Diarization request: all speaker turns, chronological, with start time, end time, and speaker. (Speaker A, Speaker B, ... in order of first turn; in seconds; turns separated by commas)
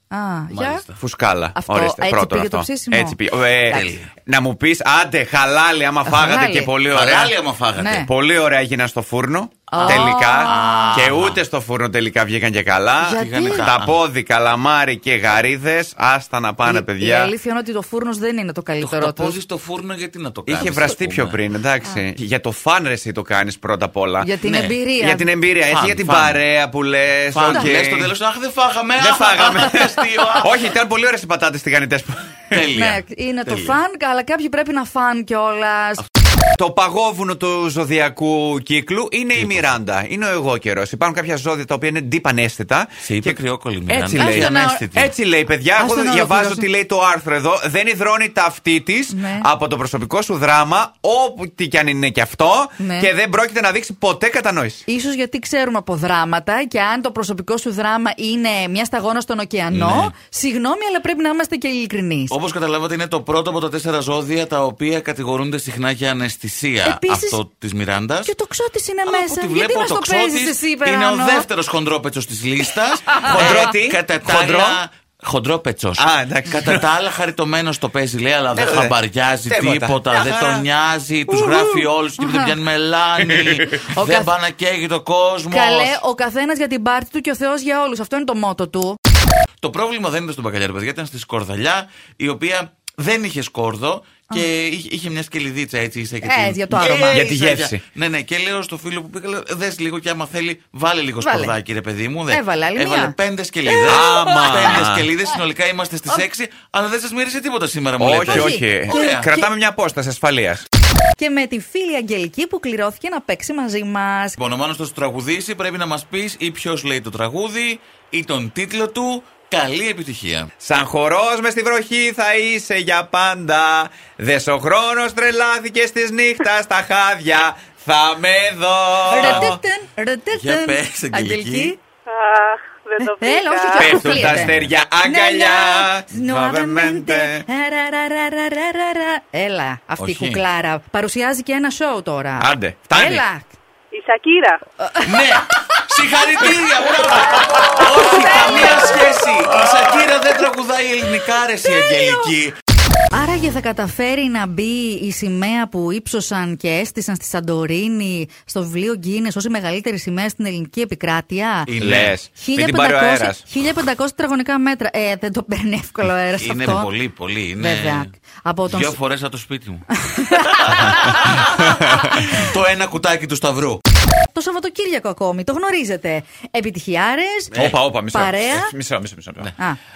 Speaker A: 0.1-0.8, Speaker B: 0.5-1.0, Speaker C: 1.0-17.3, Speaker A: 1.6-3.2, Speaker B: 3.7-4.1, Speaker A: 6.1-6.7, Speaker B: 6.9-8.1, Speaker A: 7.8-8.1, Speaker A: 9.7-11.1, Speaker B: 9.8-11.4, Speaker A: 13.0-13.7, Speaker B: 13.2-14.0, Speaker A: 16.6-19.4, Speaker B: 18.8-21.4, Speaker C: 20.5-24.3, Speaker A: 24.2-25.3, Speaker B: 24.4-24.8, Speaker C: 25.0-28.1, Speaker B: 25.7-26.4, Speaker B: 27.3-30.6, Speaker C: 29.0-32.6, Speaker B: 32.5-33.8, Speaker A: 32.7-36.0, Speaker C: 36.6-54.8, Speaker B: 39.4-39.7, Speaker B: 43.0-45.1, Speaker A: 44.2-44.9, Speaker A: 45.8-46.7, Speaker A: 49.1-49.5, Speaker A: 52.8-53.1, Speaker A: 54.9-62.4, Speaker B: 59.7-60.1, Speaker B: 62.3-68.3, Speaker A: 66.8-67.4, Speaker A: 68.2-71.5, Speaker B: 69.1-86.0, Speaker A: 73.1-73.5, Speaker C: 73.2-74.8, Speaker C: 76.0-76.9, Speaker C: 78.5-79.0, Speaker C: 79.5-80.6, Speaker A: 82.2-82.5, Speaker C: 83.3-83.8, Speaker A: 83.9-84.3, Speaker A: 85.5-89.0, Speaker B: 89.6-109.3, Speaker A: 96.2-97.2, Speaker C: 97.1-97.8, Speaker A: 101.2-101.5, Speaker A: 102.3-104.8, Speaker C: 103.8-105.1, Speaker C: 108.0-110.7, Speaker A: 108.2-109.5, Speaker A: 111.2-114.4, Speaker B: 114.4-120.5, Speaker C: 120.6-129.6, Speaker A: 129.1-131.8, Speaker B: 129.2-129.6, Speaker B: 130.3-131.8, Speaker D: 132.1-134.0, Speaker A: 133.0-134.5, Speaker C: 133.8-137.5, Speaker B: 133.8-134.7, Speaker A: 135.0-143.5, Speaker B: 140.0-140.4, Speaker C: 142.4-143.2, Speaker D: 143.9-144.6, Speaker A: 144.8-145.3, Speaker B: 145.0-152.6, Speaker A: 147.8-149.1, Speaker A: 151.8-152.1, Speaker A: 153.1-161.7, Speaker B: 161.7-162.2, Speaker C: 161.8-163.4, Speaker A: 162.3-166.9, Speaker B: 166.4-168.1, Speaker A: 167.6-168.9, Speaker B: 168.7-173.8, Speaker A: 169.9-172.5, Speaker A: 174.3-178.7, Speaker C: 177.5-179.5